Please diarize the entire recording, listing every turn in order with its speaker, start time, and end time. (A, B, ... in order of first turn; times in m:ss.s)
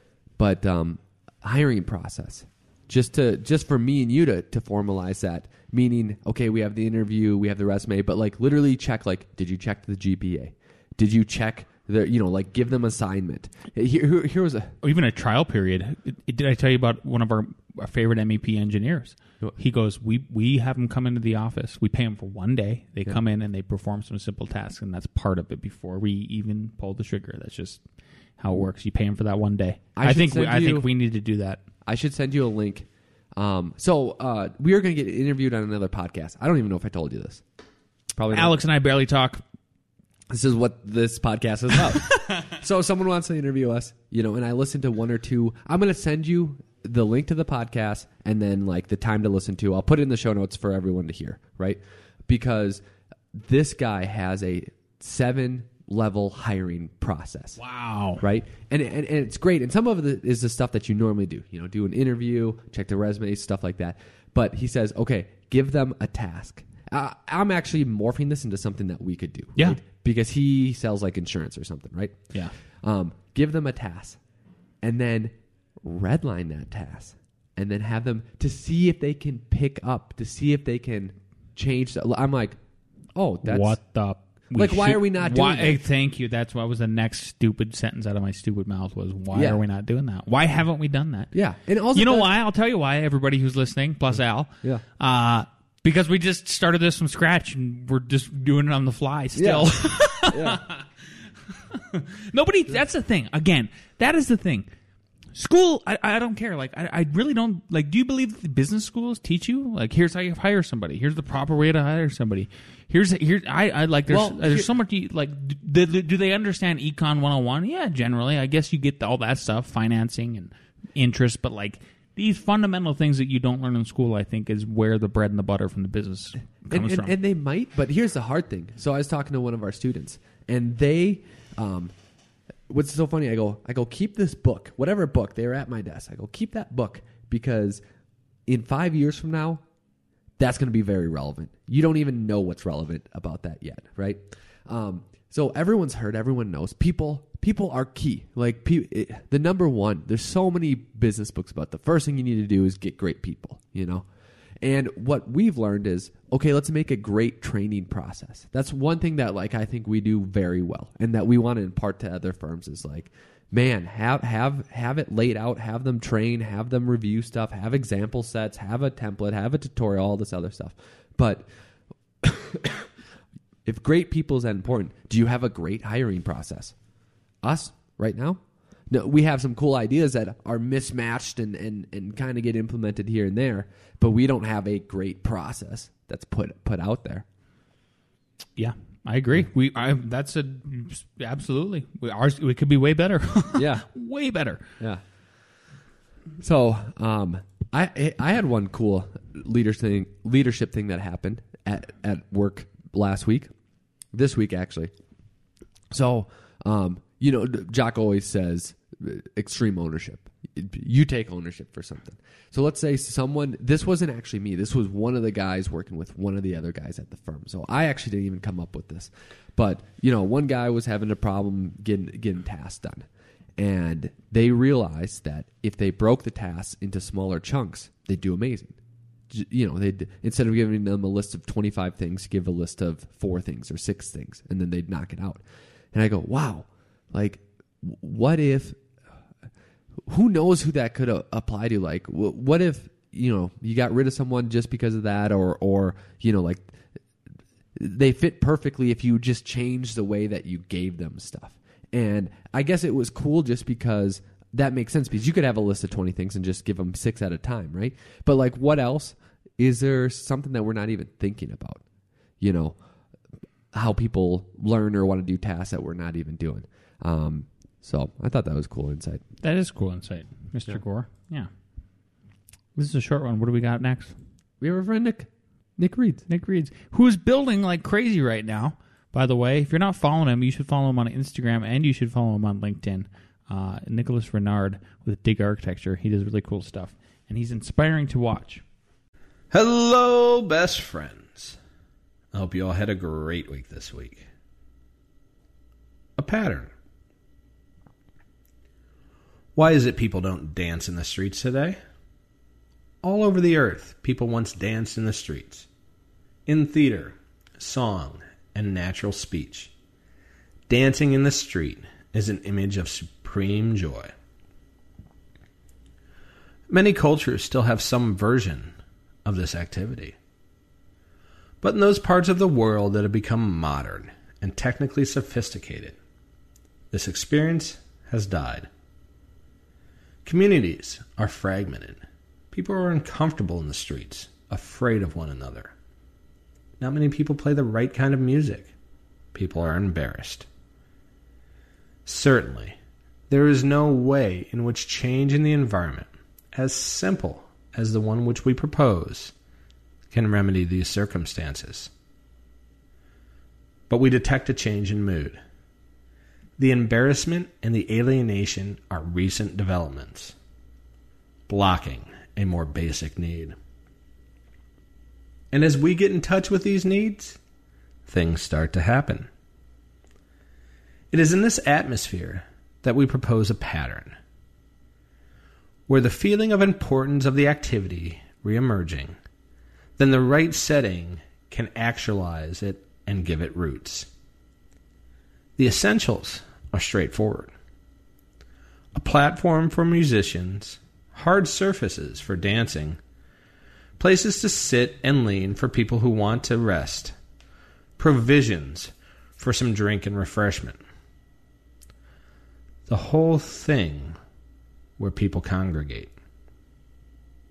0:00.4-0:14.7 A
0:14.8-0:27.8 B
0:28.4-0:31.6 B
0:30.0-0:30.9 A
0:31.8-0:37.4 A
0:38.2-0:38.6 A
0:38.3-0:39.4 B
0:40.3-0:57.6 A
0:57.6-0:58.2 B
0:58.2-1:14.2 A
1:14.8-1:22.6 A
1:23.1-1:23.8 A
1:23.4-1:31.3 B
1:24.5-1:25.8 A
1:29.3-1:29.6 A
1:31.3-1:32.3 A
1:31.9-1:40.8 B
1:39.4-1:40.6 A
1:41.6-1:44.7 B
1:45.3-2:07.1 B
1:54.1-1:54.7 A
2:06.7-2:11.9 A
2:12.7-2:17.8 A
2:18.5-2:19.6 A
2:20.4-2:34.0 A
2:34.6-2:51.5 A
2:52.2-2:52.9 A
2:53.6-2:56.7 A
2:57.4-3:07.2 A
3:08.6-3:14.6 B
3:13.5-3:13.8 A
3:16.4-3:23.5 A
3:24.1-3:24.9 A
3:25.9-3:43.0 A
3:43.6-3:48.8 A
3:49.3-3:55.4 A
3:55.9-3:58.8 A
4:00.1-4:06.8 A
4:07.8-4:21.8 A
4:22.4-4:22.8 A
4:23.7-4:29.2 A
4:29.4-4:31.5 B
4:32.8-4:34.1 B
4:34.6-4:36.2 A
4:36.3-4:48.6 B
4:49.5-4:51.6 C
4:52.3-4:54.2 C
4:56.2-4:56.7 C
4:59.5-5:01.8 C
5:03.0-5:05.7 C
5:06.4-5:09.7 C
5:10.7-5:14.1 C
5:16.7-5:18.7 C
5:19.2-5:20.2 C
5:21.6-5:26.0 C
5:26.9-5:28.7 C
5:30.2-5:35.7 C
5:36.8-5:38.7 C
5:39.3-5:40.4 C
5:42.0-5:42.8 C
5:43.3-5:49.3 C
5:50.1-5:51.9 C
5:53.9-5:55.4 C
5:56.6-6:00.3 C
6:01.5-6:03.6 C
6:05.5-6:07.4 C
6:08.0-6:09.3 C
6:11.1-6:14.2 C
6:15.9-6:19.2 C
6:20.0-6:24.1 C
6:25.6-6:27.5 C
6:28.9-6:33.0 C
6:34.0-6:37.2 C
6:38.0-6:40.8 C
6:42.9-6:44.2 C
6:45.0-6:46.1 C